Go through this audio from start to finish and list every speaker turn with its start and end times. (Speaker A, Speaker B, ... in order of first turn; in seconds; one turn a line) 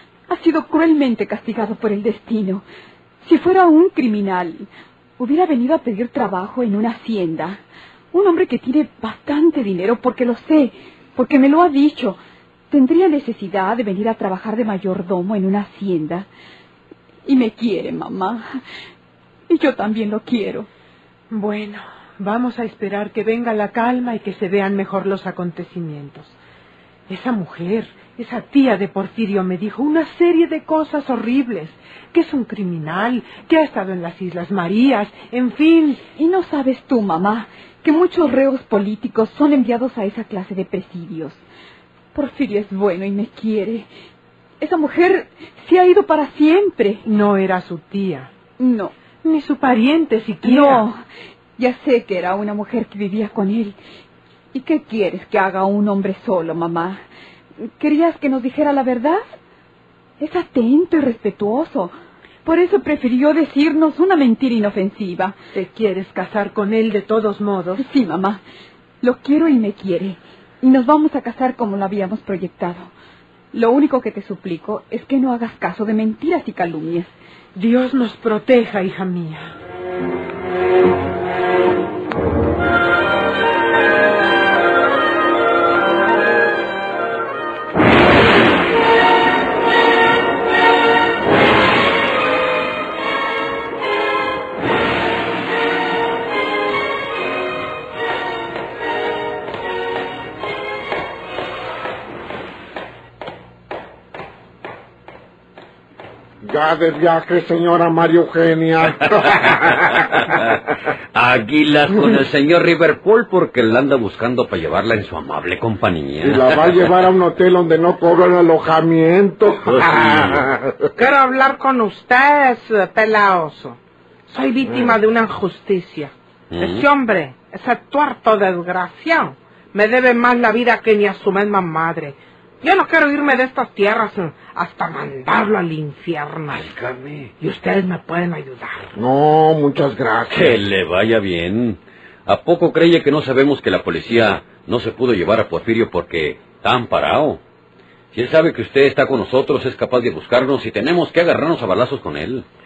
Speaker A: 0.3-2.6
Speaker A: 3.2-4.7
Speaker A: 5.2-7.6
Speaker A: 8.1-12.2
Speaker A: 12.7-16.3
Speaker A: 17.3-18.4
Speaker A: 19.5-20.7
Speaker B: 21.3-26.4
Speaker B: 27.1-36.0
Speaker A: 36.2-41.4
Speaker A: 42.1-43.9
Speaker A: 44.6-47.0
Speaker B: 47.0-48.3
Speaker A: 48.6-48.9
Speaker B: 49.2-50.9
Speaker A: 50.4-51.0
Speaker A: 51.6-53.8
Speaker A: 54.5-57.0
Speaker A: 57.7-59.2
Speaker A: 60.2-61.9
Speaker A: 62.4-65.4
Speaker B: 65.5-67.9
Speaker A: 67.8-68.4
Speaker A: 69.0-72.9
Speaker A: 73.5-77.1
Speaker B: 77.5-79.5
Speaker C: 106.4-109.9
Speaker D: 111.2-117.1
Speaker C: 111.9-112.2
Speaker C: 116.2-120.8
Speaker D: 119.6-120.4
Speaker E: 121.0-136.7
Speaker C: 124.6-125.0
Speaker D: 126.5-126.8
Speaker D: 136.5-137.3
Speaker E: 137.4-138.9
Speaker C: 138.9-140.6
Speaker D: 140.3-147.4
Speaker D: 148.1-152.4